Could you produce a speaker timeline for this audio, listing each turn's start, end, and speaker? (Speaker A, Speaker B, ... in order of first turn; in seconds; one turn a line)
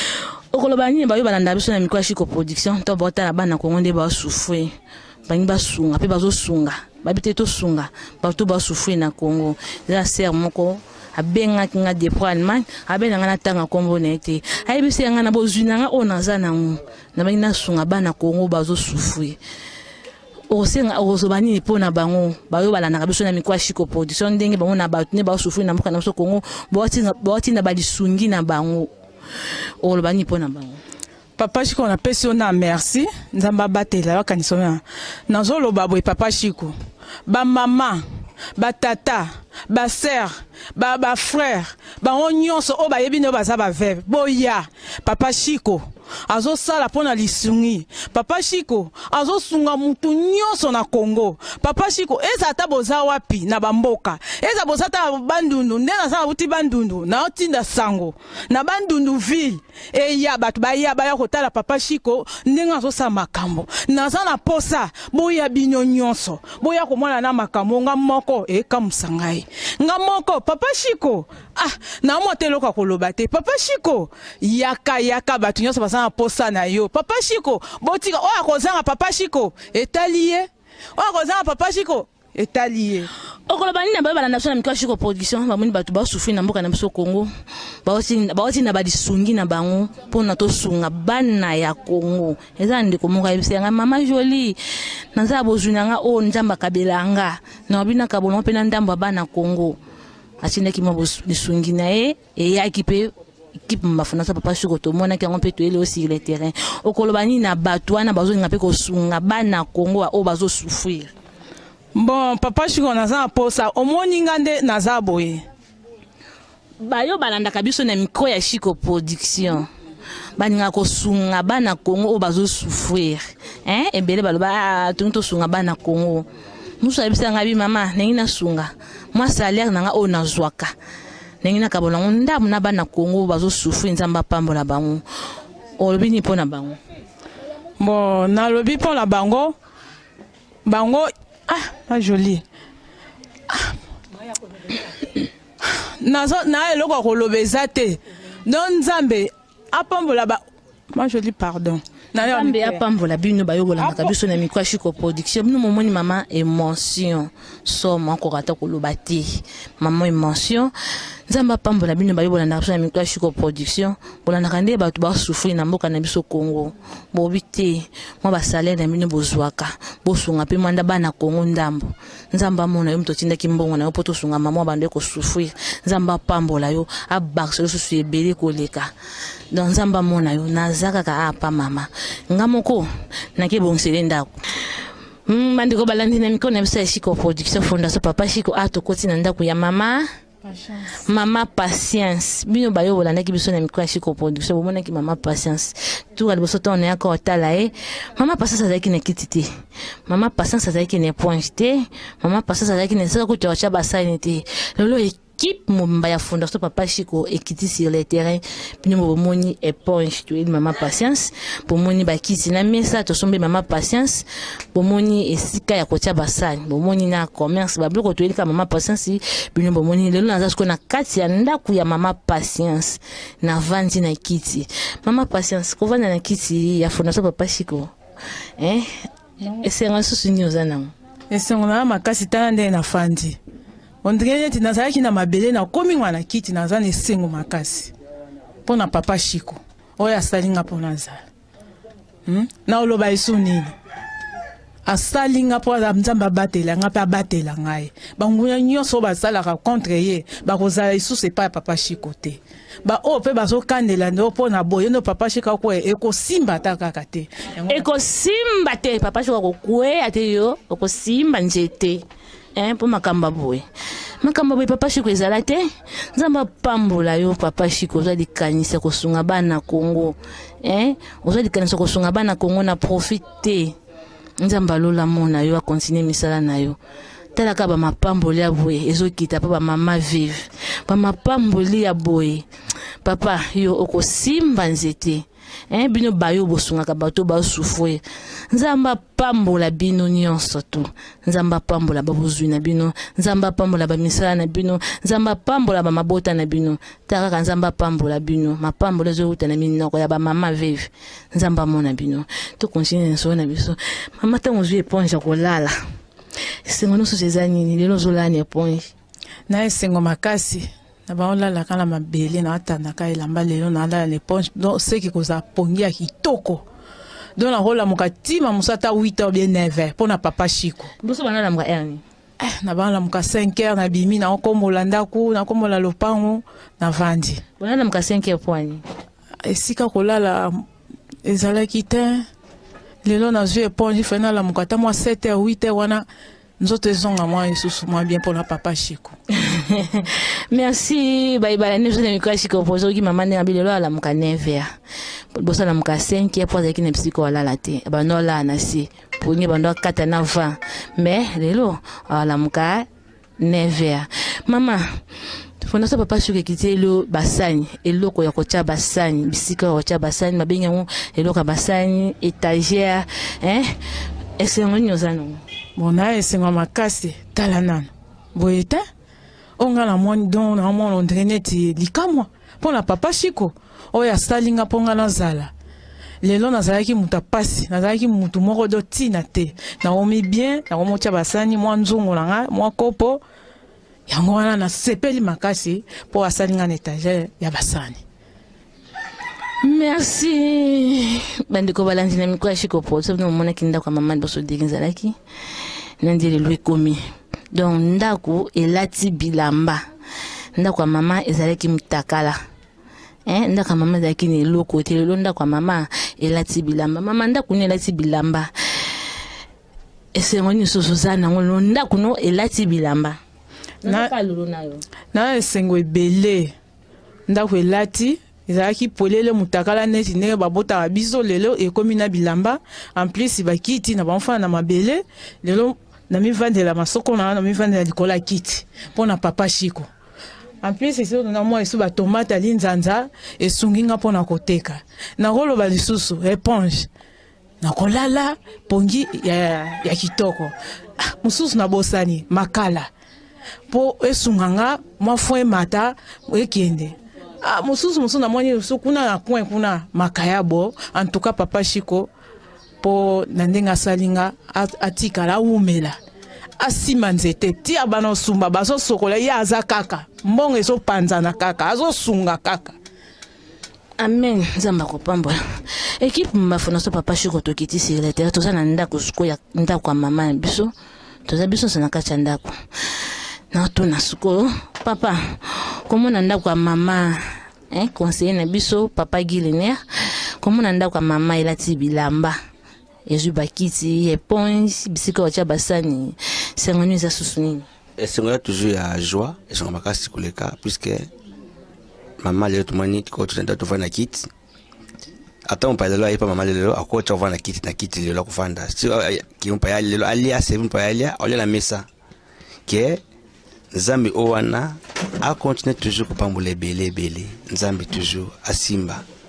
Speaker A: 0.5-4.7
Speaker A: 5.3-19.4
Speaker A: 20.5-28.9
Speaker A: 29.8-30.8
Speaker B: 31.4-36.7
Speaker B: 37.3-38.0
Speaker B: 38.6-83.1
Speaker A: 83.5-87.3
Speaker A: 87.9-94.6
Speaker A: 95.1-99.8
Speaker A: 100.4-111.1
Speaker B: 112.0-115.4
Speaker A: 116.8-119.7
Speaker A: 120.4-126.3
Speaker A: 126.8-130.7
Speaker A: 131.4-135.0
Speaker A: 135.8-136.8
Speaker B: 137.8-139.6
Speaker B: 140.7-142.4
Speaker B: 146.0-152.8
Speaker A: 152.2-160.7
Speaker B: 153.8-154.2
Speaker A: 161.3-178.9
Speaker A: 179.5-184.3
Speaker A: 185.3-190.1
Speaker B: 190.4-190.9
Speaker A: 191.1-199.5
Speaker A: 200.1-227.9
Speaker A: 228.6-228.9
Speaker A: 229.6-230.9
Speaker B: 231.3-233.4
Speaker B: 234.0-237.9
Speaker B: 238.7-241.2
Speaker B: 242.3-243.7
Speaker B: 244.9-257.9
Speaker A: 257.7-263.6
Speaker A: 264.2-265.6
Speaker A: 266.1-273.8
Speaker A: 274.4-276.8
Speaker A: 277.4-282.5
Speaker A: 283.0-288.0
Speaker A: 288.5-305.7
Speaker A: 306.7-308.9
Speaker B: 309.5-316.6
Speaker B: 317.4-320.9
Speaker A: 321.0-322.0
Speaker B: 322.4-327.4
Speaker A: 327.6-328.8
Speaker B: 329.5-330.6
Speaker B: 331.2-332.2
Speaker B: 333.1-336.1
Speaker B: 336.6-339.1
Speaker A: 339.5-344.7
Speaker A: 345.4-352.9
Speaker A: 353.4-354.8
Speaker A: 355.6-363.7
Speaker A: 364.4-365.4
Speaker B: 365.8-368.8
Speaker B: 369.6-375.5
Speaker B: 376.2-383.2
Speaker B: 384.1-388.0
Speaker A: 389.6-395.1
Speaker A: 396.0-397.0
Speaker A: 397.5-399.8
Speaker A: 400.6-402.4
Speaker A: 403.3-408.5
Speaker A: 410.1-413.2
Speaker A: 413.8-414.8
Speaker B: 413.9-414.1
Speaker B: 415.1-416.5
Speaker B: 417.3-429.9
Speaker B: 430.6-436.9
Speaker B: 437.6-442.9
Speaker B: 443.7-452.1
Speaker B: 452.8-456.0
Speaker B: 456.6-462.8
Speaker A: 464.0-465.4
Speaker A: 466.0-470.7
Speaker A: 471.3-472.6
Speaker A: 473.5-477.2
Speaker A: 477.7-479.8
Speaker A: 480.4-482.4
Speaker A: 483.1-487.7
Speaker C: 488.0-491.1
Speaker C: 492.2-494.3
Speaker C: 495.5-501.9
Speaker C: 502.7-503.0
Speaker C: 503.7-509.0